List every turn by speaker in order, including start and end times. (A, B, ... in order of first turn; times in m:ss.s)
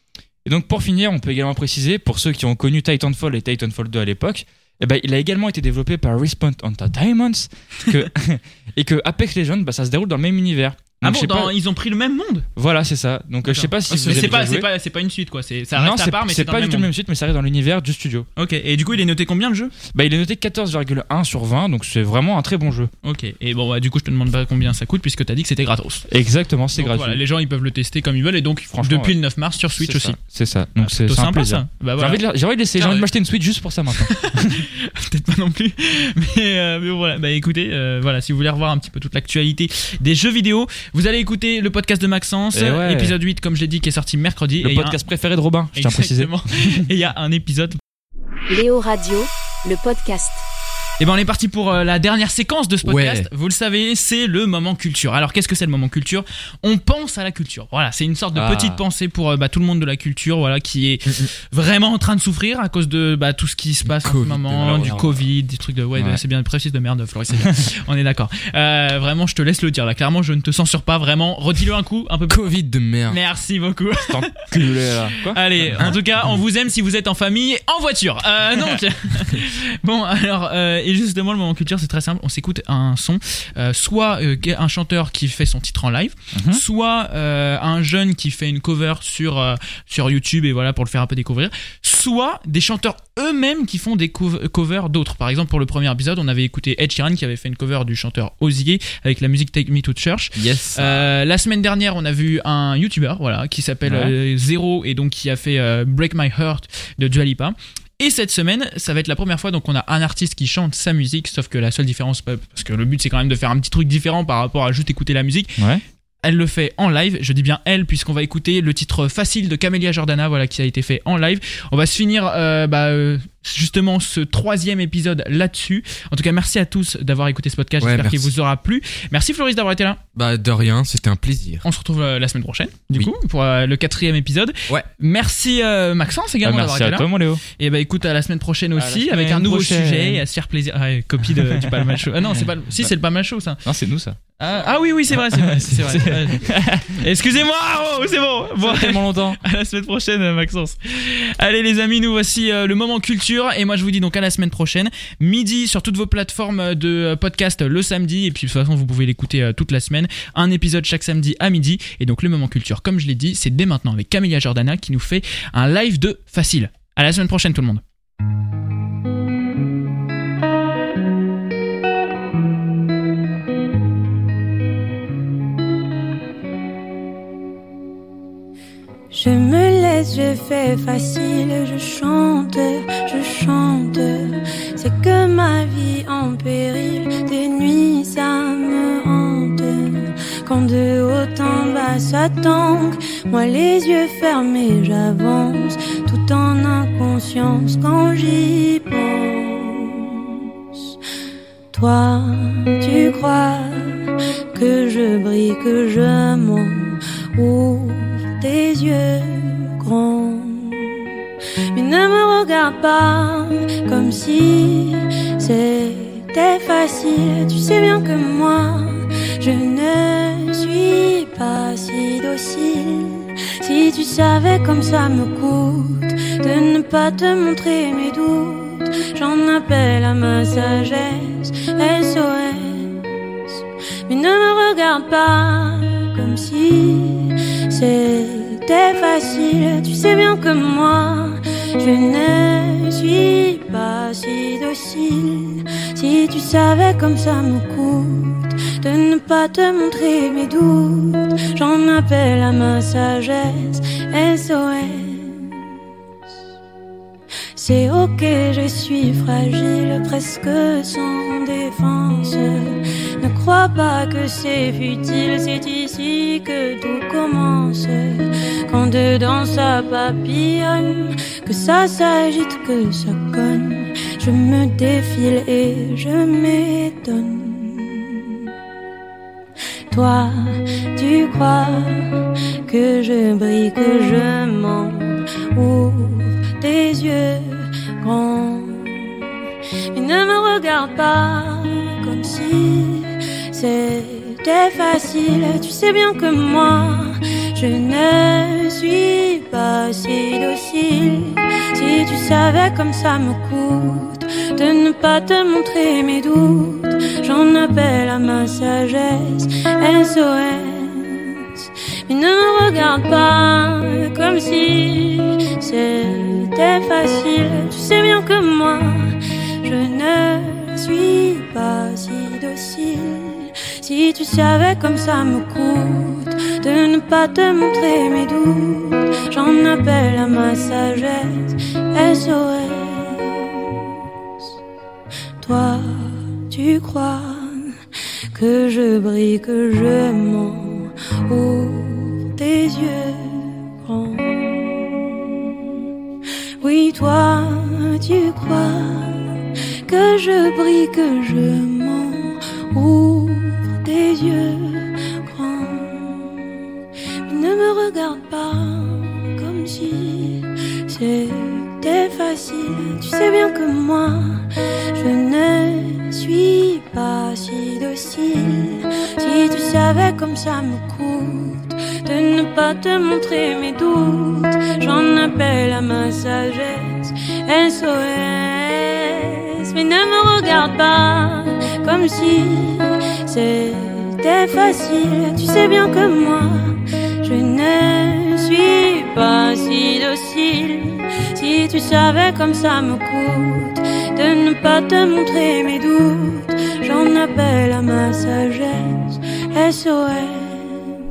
0:00.4-0:11.5 A
0:11.0-0:12.5 B
0:12.6-0:14.7 A
0:13.4-0:16.9 B
0:13.9-0:14.4 C
0:15.8-0:18.2 A
0:18.4-0:19.8 B
0:19.8-0:22.9 A
0:23.0-0:26.1 B
0:26.1-0:27.2 A
0:26.8-0:30.2 B
0:28.8-0:29.1 A
0:29.8-0:34.6 A
0:30.8-0:32.2 B
0:32.7-0:33.1 B
0:33.9-0:45.0 B
0:42.5-0:43.2 A
0:44.6-0:46.8 A
0:45.7-0:47.8 B
0:48.5-0:50.4 D
0:51.0-1:12.5 B
0:52.8-0:53.3 C
0:58.3-0:58.8 A
1:03.9-1:05.0 C
1:04.6-1:05.1 A
1:12.3-1:13.2 C
1:13.1-1:55.6 B
1:14.1-1:15.9 A
1:26.3-1:26.6 A
1:40.4-1:41.0 C
1:43.9-1:44.1 A
1:55.6-1:55.8 A
1:56.2-2:10.0 B
2:07.8-2:08.3 C
2:10.2-2:11.6 C
2:11.6-2:23.6 B
2:16.4-2:17.4 A
2:18.7-2:20.2 A
2:21.3-2:22.9 A
2:23.6-2:24.2 A
2:24.4-2:47.8 B
2:25.1-2:27.0 A
2:28.6-2:29.4 A
2:59.1-3:20.4 E
3:21.7-3:31.0 E
3:31.7-3:53.1 E
3:54.1-4:15.6 E
4:17.6-4:38.4 E
4:39.9-4:42.1 E
4:42.7-4:49.3 E
4:49.9-5:11.4 E
5:12.1-5:33.8 E
5:35.4-5:37.7 E
5:38.3-5:45.6 E
5:46.6-5:49.2 E
5:49.9-5:56.4 E
5:57.3-6:04.4 E
6:05.0-6:26.7 E
6:27.2-6:40.8 E